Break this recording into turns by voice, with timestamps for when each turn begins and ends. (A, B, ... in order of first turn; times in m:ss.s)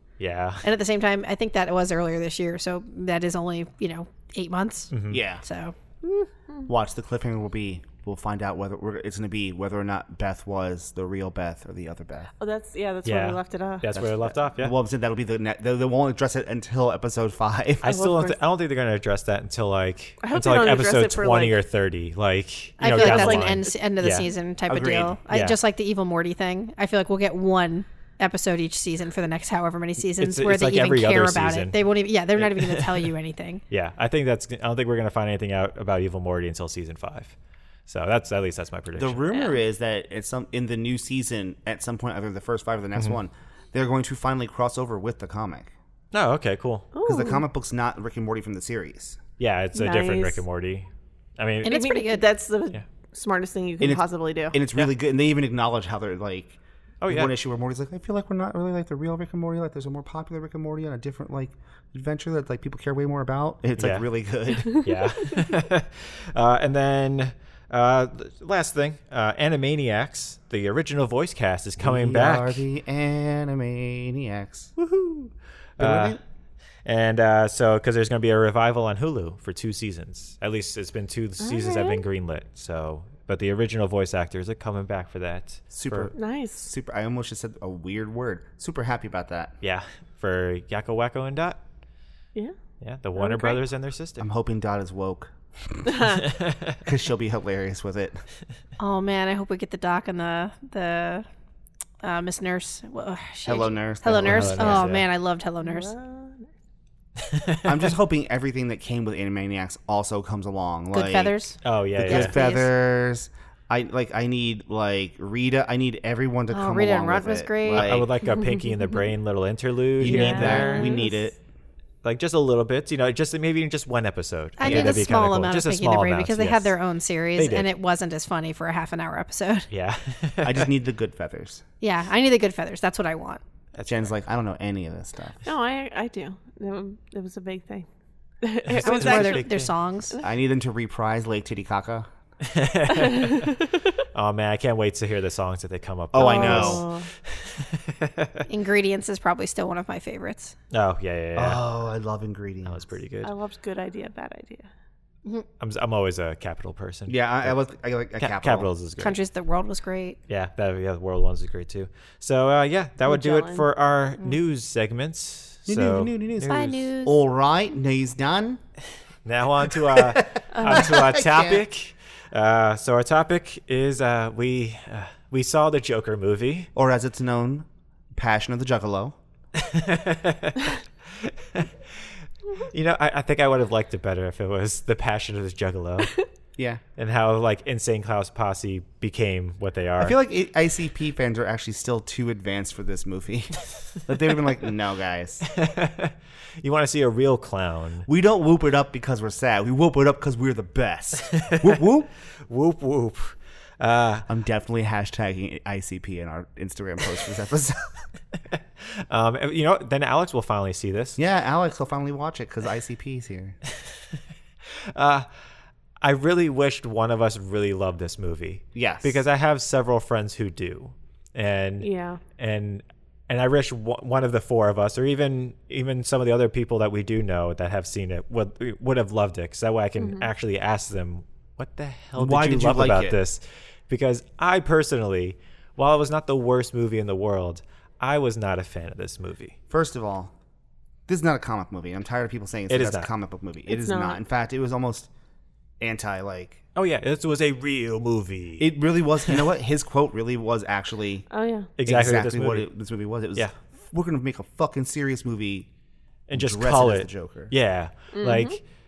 0:00.2-0:00.6 A
0:00.6-0:06.3 B
0:04.9-0:05.2 A
0:05.1-0:05.4 C
0:06.6-0:12.3 C
0:12.4-0:13.9 D
0:13.0-0:14.8 A
0:13.9-0:18.0 C
0:17.8-0:24.3 A
0:17.8-0:18.4 D
0:20.2-0:21.6 D
0:22.8-0:33.6 B
0:22.9-0:23.7 D
0:24.7-0:25.2 C
0:25.3-0:25.6 A
0:30.2-0:33.1 A
0:33.7-0:37.3 A
0:37.9-0:39.2 A
0:39.0-0:45.7 C
0:46.1-0:46.9 A
0:46.9-0:47.4 D
0:47.0-0:49.2 C
0:49.4-0:51.8 A
0:49.7-0:50.4 D
0:51.6-0:54.6 D
0:51.6-0:52.2 B
0:53.8-1:04.8 C
0:57.0-0:57.3 A
1:03.8-1:04.0 A
1:04.7-1:12.6 A
1:11.8-1:16.2 C
1:15.8-1:16.2 A
1:16.8-1:26.1 A
1:21.4-1:22.0 D
1:25.7-1:29.5 C
1:26.1-1:26.6 D
1:29.6-1:31.6 A
1:32.8-1:34.3 A
1:33.2-1:33.6 D
1:34.2-1:36.1 C
1:35.9-1:36.2 D
1:36.2-1:36.8 A
1:36.8-1:38.2 C
1:38.8-1:41.2 B
1:42.0-1:45.9 B
1:43.4-1:44.9 C
1:44.2-1:45.0 A
1:45.6-1:46.5 D
1:47.2-1:47.9 A
1:47.6-1:51.4 C
1:50.9-1:52.7 B
1:51.6-1:52.4 A
1:52.0-1:58.1 C
1:56.5-1:57.9 B
1:57.8-2:00.9 A
1:58.2-1:59.0 D
2:00.0-2:01.4 C
2:00.1-2:00.8 B
2:00.1-2:01.3 D
2:02.0-2:06.7 A
2:04.6-2:09.7 B
2:04.6-2:05.1 C
2:07.4-2:07.7 A
2:09.7-2:10.7 A
2:10.4-2:11.6 C
2:11.8-2:13.4 B
2:13.8-2:14.1 A
2:13.8-2:15.4 C
2:15.4-2:17.9 D
2:18.4-2:19.4 D
2:18.6-2:19.7 A
2:18.8-2:20.2 B
2:20.2-2:22.1 C
2:22.4-2:23.6 A
2:22.9-2:23.8 D
2:24.1-2:28.4 A
2:26.1-2:26.8 C
2:26.1-2:27.1 D
2:28.5-2:30.5 B
2:30.7-2:31.6 A
2:31.4-2:32.8 C
2:32.6-2:33.3 A
2:33.2-2:34.7 D
2:35.6-2:37.5 A
2:37.1-2:38.7 C
2:38.2-2:39.2 A
2:39.0-2:40.2 B
2:40.3-2:46.7 A
2:43.0-2:43.7 D
2:45.7-2:48.6 C
2:46.4-2:47.2 B
2:49.2-2:56.7 A
2:49.7-2:51.6 C
2:50.5-2:50.9 D
2:56.8-2:59.2 C
2:59.5-3:01.7 A
3:02.5-3:06.2 A
3:06.6-3:06.8 C
3:07.0-3:10.2 A
3:10.0-3:15.5 C
3:15.5-3:18.0 A
3:18.0-3:22.1 C
3:21.3-3:21.8 A
3:22.4-3:24.2 A
3:24.3-3:27.9 C
3:28.8-3:31.2 A
3:31.2-3:33.6 C
3:34.9-3:35.3 A
3:36.0-3:59.5 A
3:38.7-3:39.2 C
3:41.8-3:42.2 D
3:50.0-3:50.3 D
3:52.2-3:53.2 C
3:59.7-4:00.3 C
4:01.1-4:05.1 C
4:02.7-4:03.1 A
4:03.7-4:04.2 D
4:05.8-4:06.6 C
4:06.8-4:08.7 A
4:08.6-4:11.2 C
4:11.3-4:11.7 D
4:11.8-4:12.6 A
4:11.8-4:15.7 C
4:16.3-4:18.6 A
4:16.3-4:17.5 C
4:18.2-4:18.6 D